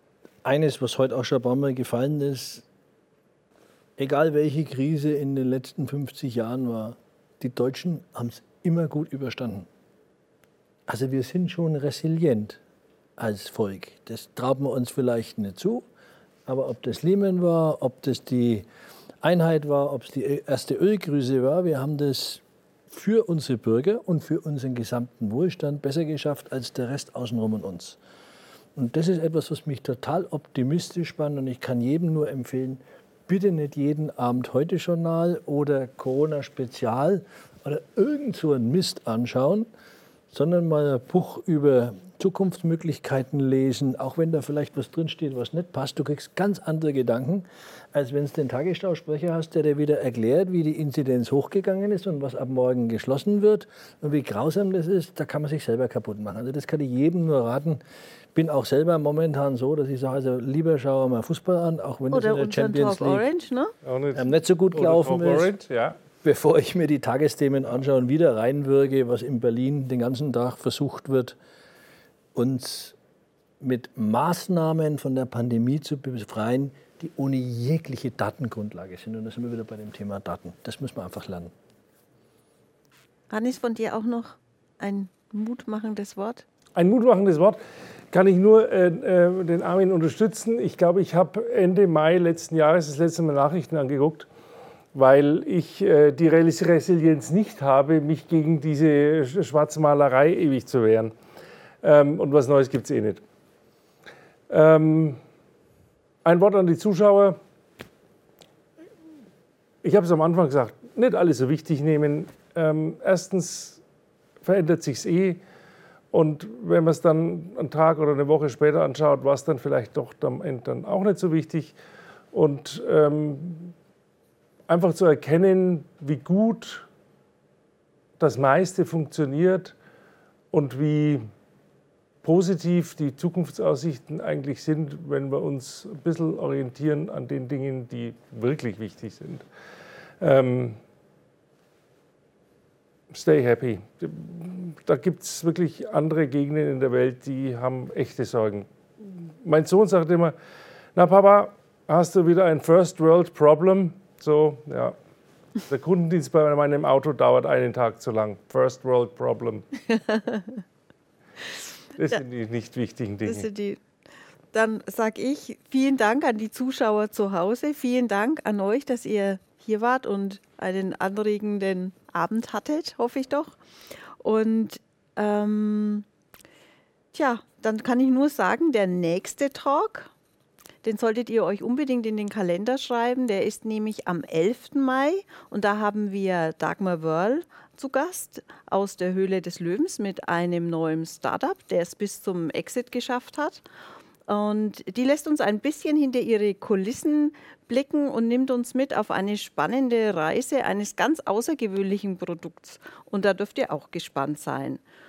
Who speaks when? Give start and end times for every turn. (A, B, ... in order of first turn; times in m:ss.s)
0:00.4-0:02.6 A
0:04.0-0:09.7 A
0:10.9-0:12.6 A
0:13.2-0:15.8 A
0:16.4-0:18.7 A
0:19.2-0:28.0 A
0:28.8-0:39.7 A
0:40.3-0:57.8 A
0:58.3-1:03.3 A
1:02.1-1:03.7 B
1:03.8-1:06.0 C
1:04.1-1:05.7 A
1:06.2-1:11.4 A
1:12.3-1:13.0 A
1:13.6-1:21.5 A
1:23.3-1:26.4 B
1:26.7-1:27.6 C
1:28.1-1:34.3 C
1:34.9-1:41.1 C
1:41.8-1:43.2 C
1:44.5-1:45.2 C
1:46.2-1:47.4 C
1:49.8-1:53.8 C
1:54.4-1:55.4 C
1:56.1-2:01.7 C
2:02.3-2:03.7 C
2:04.7-2:06.9 C
2:08.2-2:09.7 C
2:10.5-2:11.3 C
2:12.2-2:19.4 C
2:20.2-2:20.8 C
2:23.1-2:30.3 C
2:30.9-2:35.0 C
2:35.6-2:39.7 C
2:39.9-2:40.6 B
2:42.0-2:43.5 C
2:43.2-2:43.8 B
2:44.5-2:53.6 B
2:54.2-2:56.0 B
2:57.1-3:00.1 B
3:00.8-3:13.6 B
3:14.2-3:24.8 B